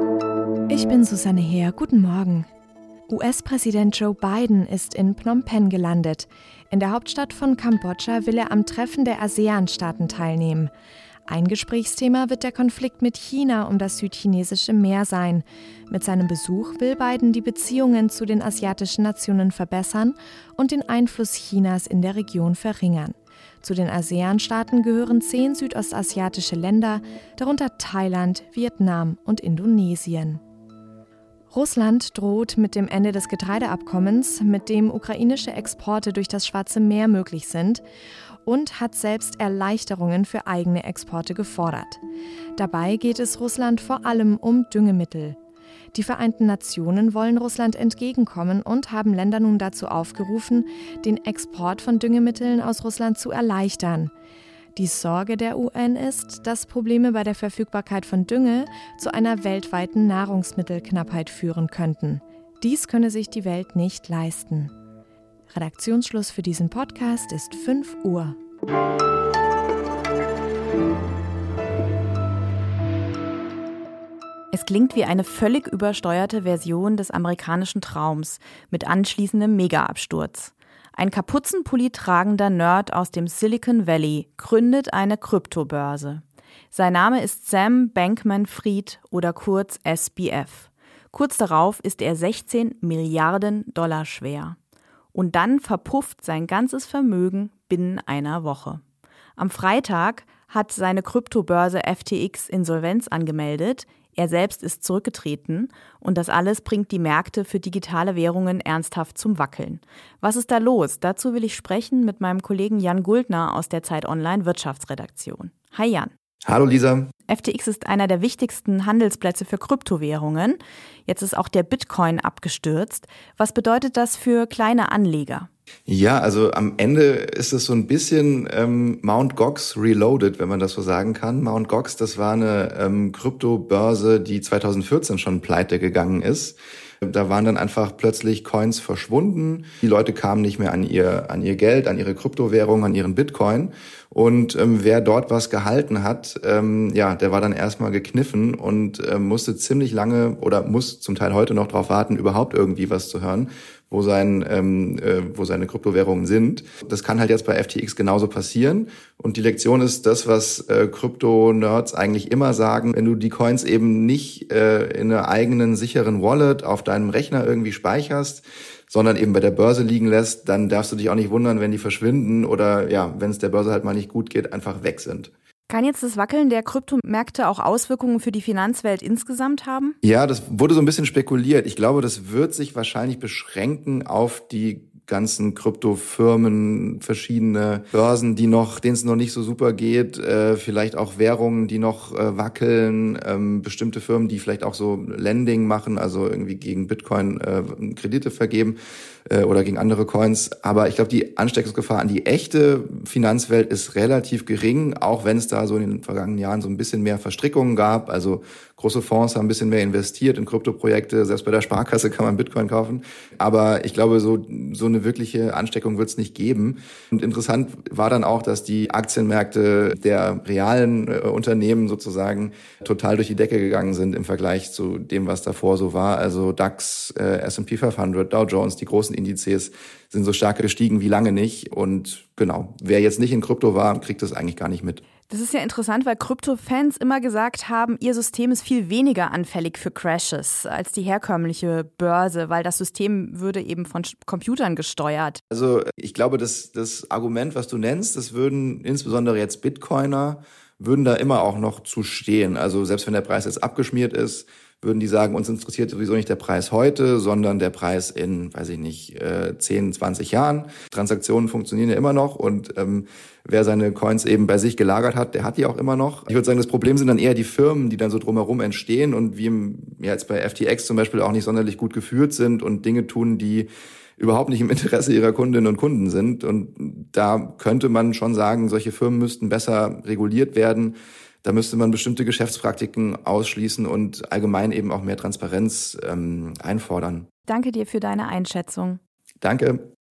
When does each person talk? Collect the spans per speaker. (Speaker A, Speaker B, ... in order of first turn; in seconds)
Speaker A: 0.7-2.5, 3.1-10.7, 11.3-30.4, 31.5-37.8, 38.4-42.0, 42.6-45.4, 45.9-54.1, 54.7-64.7, 65.5-68.4
Speaker B: 74.5-94.6, 95.1-98.8, 99.4-116.1, 117.3-125.5, 175.7-180.0, 235.3-245.4, 287.5-289.0
Speaker C: 116.5-117.1, 125.9-175.3, 180.0-198.8, 199.3-235.0, 245.5-273.7, 274.2-287.2, 289.4-289.8